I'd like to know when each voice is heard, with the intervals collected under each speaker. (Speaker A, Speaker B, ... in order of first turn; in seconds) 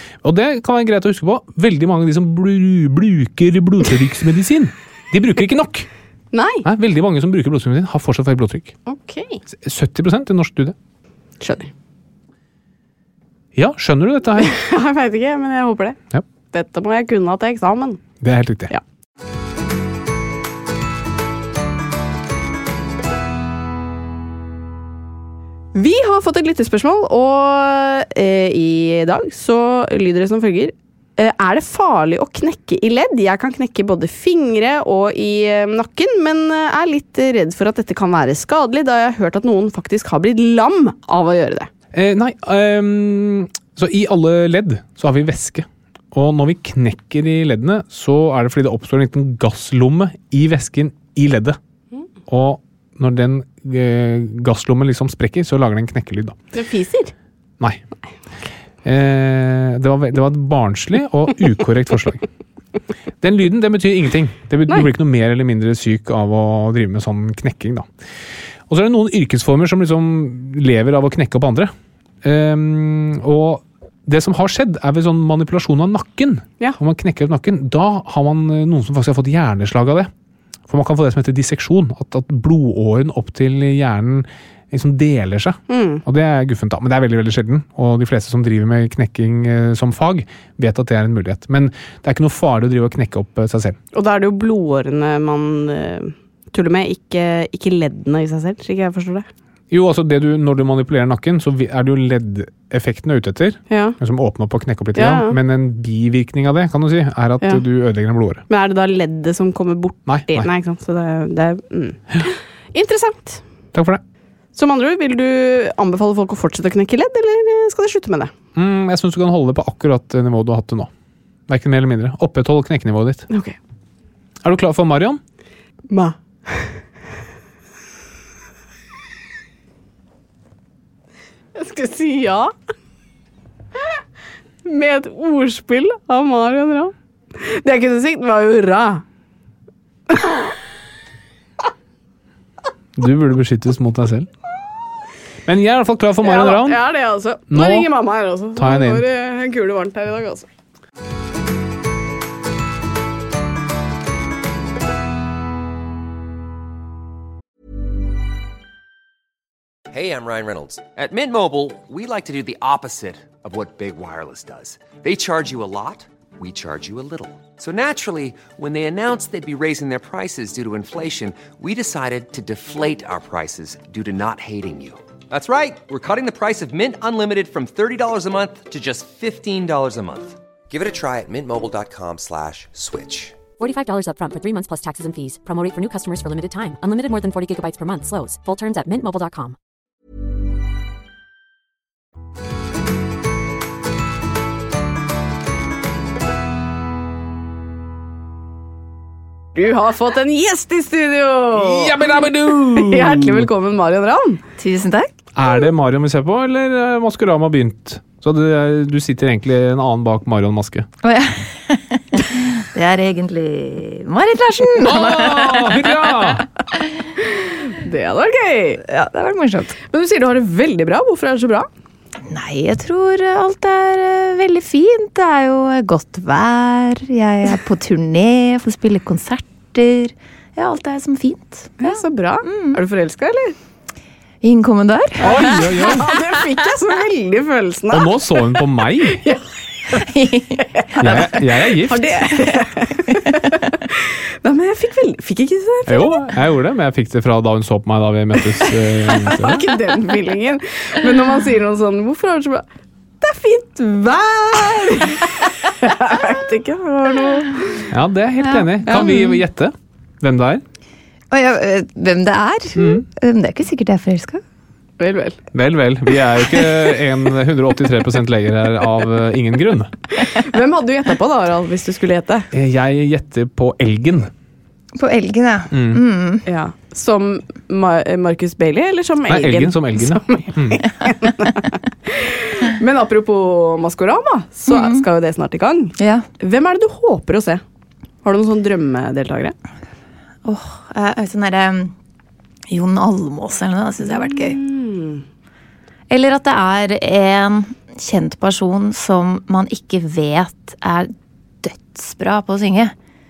Speaker A: 0.2-5.9, 6.6-8.8, 9.5-10.8, 13.6-14.5, 18.2-18.7, 41.9-51.6, 52.3-56.4, 58.8-62.3, 63.2-67.9, 68.7-71.7, 72.2-80.1, 80.7-93.8, 99.7-108.4, 110.1-110.5, 113.7-114.0, 118.5-120.9, 121.5-123.3, 124.4-125.2, 143.0-144.3, 145.5-146.8, 147.5-147.9, 148.6-149.1, 201.6-203.5, 205.3-210.9, 214.8-216.5, 235.2-236.1, 237.9-239.2, 241.0-242.2, 245.9-249.7, 257.9-260.6, 262.8-263.1, 265.5-269.9, 272.5-274.3, 275.7-276.0, 279.3-280.8
Speaker B: 6.3-6.7, 8.9-9.4, 11.4-11.7, 14.4-16.0, 16.5-18.0, 25.7-41.7, 56.5-57.1, 85.7-86.0, 93.9-99.3, 103.7-104.0, 105.0-105.4, 108.5-113.4, 114.5-118.3, 123.3-123.6, 125.9-126.8, 131.6-132.5, 134.6-139.0, 140.1-140.5, 146.2-150.5, 199.6-202.0, 202.7-204.4, 217.7-218.8, 219.9-221.7, 231.8-233.6, 235.2-238.4, 239.1-240.1, 240.8-246.3, 248.6-252.7, 253.2-257.9, 258.9-259.3, 265.0-265.4, 270.1-272.5, 276.5-287.6, 288.2-289.6, 294.1-295.2
Speaker C: 159.9-183.4
Speaker D: 183.6-189.6
Speaker E: 204.6-205.1, 211.0-216.0, 218.8-219.8, 222.3-232.8, 234.4-235.6, 239.9-241.2, 242.4-243.3, 258.4-259.4, 261.3-264.4, 275.0-276.4, 284.7-285.0, 286.0-286.3, 290.4-291.9, 292.7-294.6, 296.1-301.1, 301.6-302.9